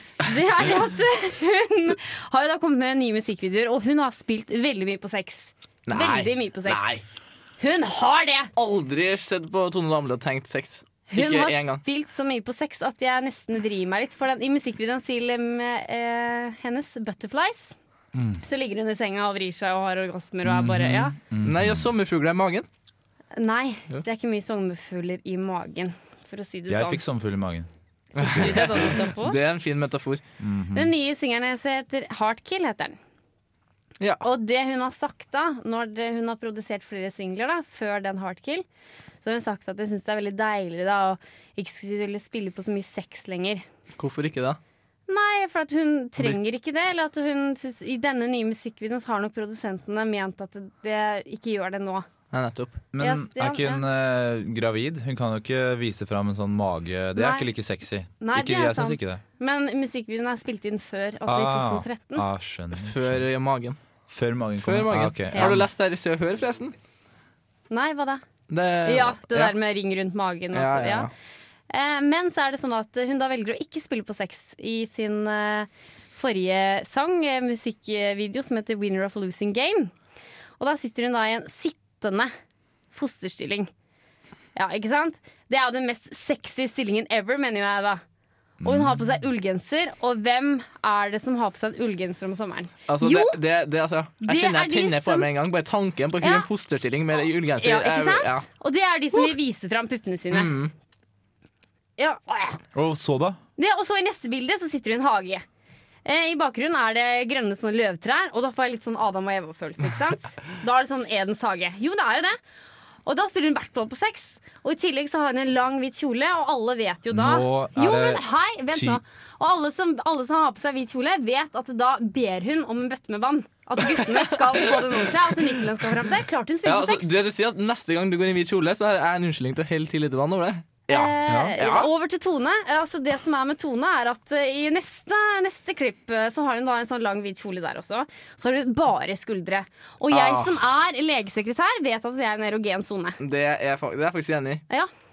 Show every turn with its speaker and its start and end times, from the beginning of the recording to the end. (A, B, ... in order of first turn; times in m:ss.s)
0:00.2-0:07.0 A
0:05.9-0:07.0 B
0:07.6-0:08.5 A
0:08.6-0:11.8 B
0:11.1-0:17.8 A
0:18.1-0:18.4 C
0:18.4-0:21.1 A
0:20.4-0:21.9 C
0:21.4-0:22.6 B
0:23.3-0:27.0 A
0:26.7-0:29.0 C
0:28.1-0:30.2 B
0:28.4-0:29.4 A
0:30.4-0:30.9 C
0:30.7-0:33.0 A
0:34.0-0:34.2 B
0:34.2-0:38.6 A
0:39.2-0:43.6 A
0:44.0-0:44.6 B
0:45.1-0:52.0 A
0:52.3-0:52.8 B
0:52.9-0:59.2 C
0:53.0-0:53.8 A
0:57.2-0:57.5 A
0:58.2-1:02.2 A
1:01.3-1:03.3 C
1:02.7-1:03.8 B
1:04.1-1:05.7 C
1:04.6-1:06.7 B
1:07.7-1:08.2 A
1:08.5-1:09.5 B
1:08.8-1:11.1 A
1:10.5-1:11.1 B
1:11.7-1:19.9 A
1:20.6-1:22.3 A
1:22.9-1:23.7 A
1:24.5-1:28.0 A
1:28.6-1:29.1 C
1:28.6-1:33.4 A
1:32.9-1:38.4 B
1:34.2-1:35.3 A
1:36.2-1:36.5 A
1:37.6-1:40.5 A
1:40.3-1:40.7 B
1:42.0-1:42.6 A
1:42.7-1:43.4 C
1:43.6-1:45.4 A
1:46.0-1:52.4 A
1:53.0-2:07.1 A
1:57.1-1:59.0 C
2:03.9-2:05.2 B
2:06.6-2:11.9 B
2:10.9-2:23.2 A
2:11.3-2:11.6 C
2:20.1-2:20.5 B
2:23.2-2:24.6 B